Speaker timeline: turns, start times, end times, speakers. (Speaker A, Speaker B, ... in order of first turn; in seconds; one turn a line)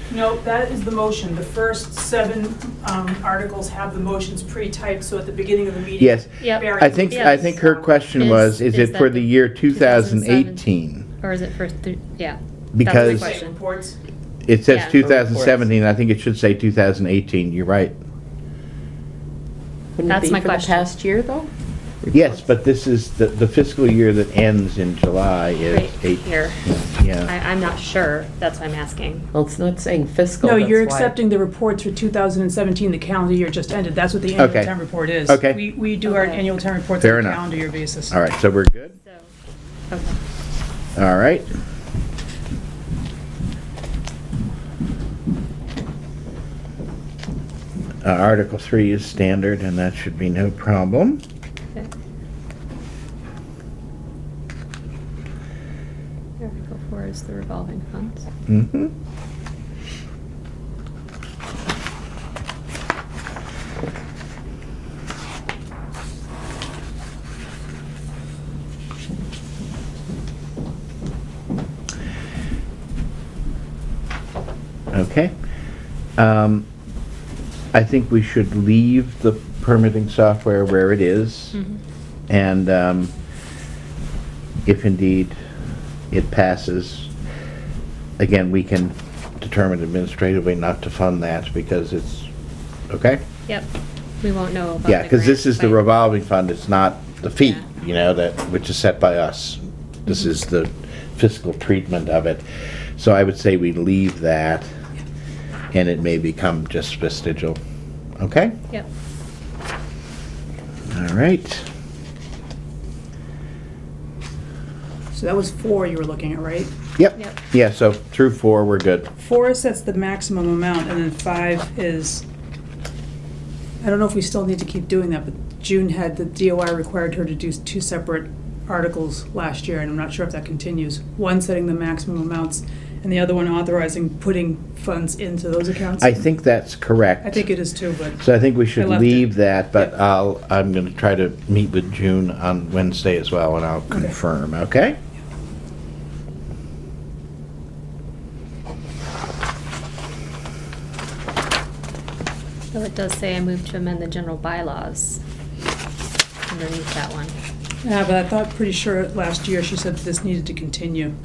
Speaker A: 0.1-7.8
Speaker B: 6.0-11.1
Speaker C: 6.4-10.7
Speaker C: 11.2-13.6
Speaker B: 12.7-13.3
Speaker A: 12.8-13.9
Speaker B: 14.4-17.9
Speaker C: 14.7-15.0
Speaker D: 15.0-15.7
Speaker D: 19.9-22.5
Speaker C: 20.1-20.9
Speaker B: 22.1-27.3
Speaker C: 25.7-26.6
Speaker C: 27.2-29.3
Speaker D: 29.3-31.1
Speaker A: 30.4-38.1
Speaker B: 34.4-34.7
Speaker B: 35.2-35.6
Speaker C: 36.0-36.4
Speaker B: 37.0-37.4
Speaker B: 38.1-39.0
Speaker C: 39.0-39.3
Speaker C: 39.9-40.2
Speaker B: 41.0-41.5
Speaker B: 48.0-51.2
Speaker C: 56.4-58.2
Speaker B: 58.5-58.9
Speaker B: 74.9-75.3
Speaker B: 76.2-76.7
Speaker B: 77.7-81.6
Speaker C: 81.5-81.8
Speaker B: 82.3-83.1
Speaker B: 84.6-85.3
Speaker B: 86.1-87.1
Speaker B: 88.2-92.3
Speaker B: 92.9-93.2
Speaker C: 94.2-95.8
Speaker B: 94.8-102.4
Speaker B: 103.0-104.7
Speaker B: 105.7-107.6
Speaker B: 108.2-108.5
Speaker B: 110.9-111.6
Speaker A: 115.1-116.7
Speaker B: 117.0-119.1
Speaker A: 119.2-122.2
Speaker A: 123.8-136.2
Speaker B: 136.0-137.4
Speaker A: 137.2-138.2
Speaker B: 138.2-145.0
Speaker A: 138.8-139.3
Speaker A: 143.9-144.2
Speaker C: 152.7-155.2
Speaker C: 156.5-157.3
Speaker A: 157.8-161.1